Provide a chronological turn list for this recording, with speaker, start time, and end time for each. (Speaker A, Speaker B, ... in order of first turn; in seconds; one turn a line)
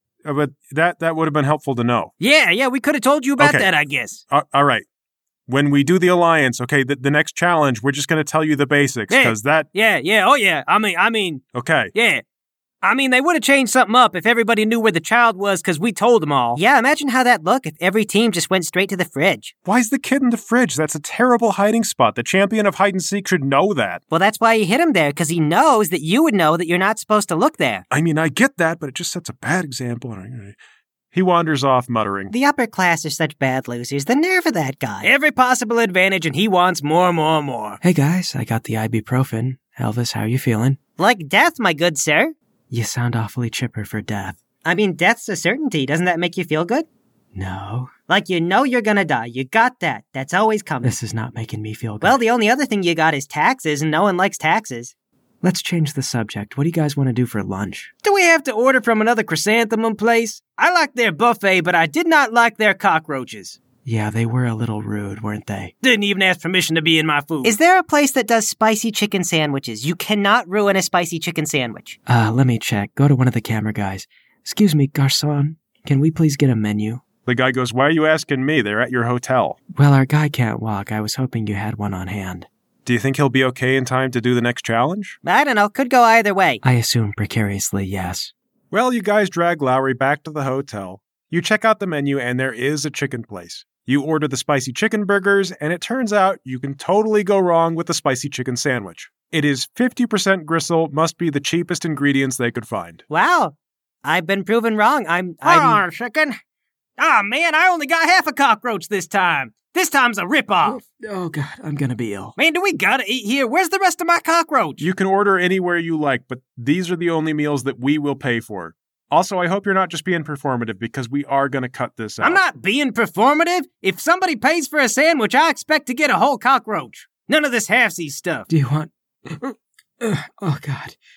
Speaker A: 0.2-2.1
Speaker B: 2.2-4.2
Speaker A: 3.4-3.7
Speaker A: 4.3-4.8
Speaker A: 5.5-9.7
Speaker B: 9.1-11.4
Speaker A: 11.5-11.9
Speaker B: 11.9-12.2
Speaker B: 12.8-16.6
Speaker C: 16.6-19.5
Speaker A: 19.6-24.0
Speaker C: 24.1-27.8
Speaker A: 27.9-30.6
Speaker A: 31.1-32.3
Speaker C: 32.3-35.1
Speaker B: 35.0-37.8
Speaker D: 37.8-40.8
Speaker C: 41.0-42.3
Speaker D: 42.7-44.4
Speaker C: 44.6-46.9
Speaker D: 47.4-47.9
Speaker C: 48.1-51.0
Speaker D: 50.8-52.2
Speaker C: 52.0-54.9
Speaker D: 55.4-57.9
Speaker B: 58.0-63.6
Speaker D: 63.9-65.7
Speaker B: 65.8-67.6
Speaker C: 67.4-72.0
Speaker D: 72.1-77.0
Speaker A: 77.2-79.6
Speaker D: 79.8-82.5
Speaker A: 82.8-85.2
Speaker C: 85.2-86.6
Speaker D: 86.6-88.3
Speaker A: 88.7-103.0
Speaker C: 103.1-105.8
Speaker B: 105.4-106.4
Speaker B: 107.0-110.8
Speaker D: 110.6-112.3
Speaker B: 112.4-114.8
Speaker A: 114.8-122.4
Speaker B: 122.2-128.5
Speaker D: 128.5-131.0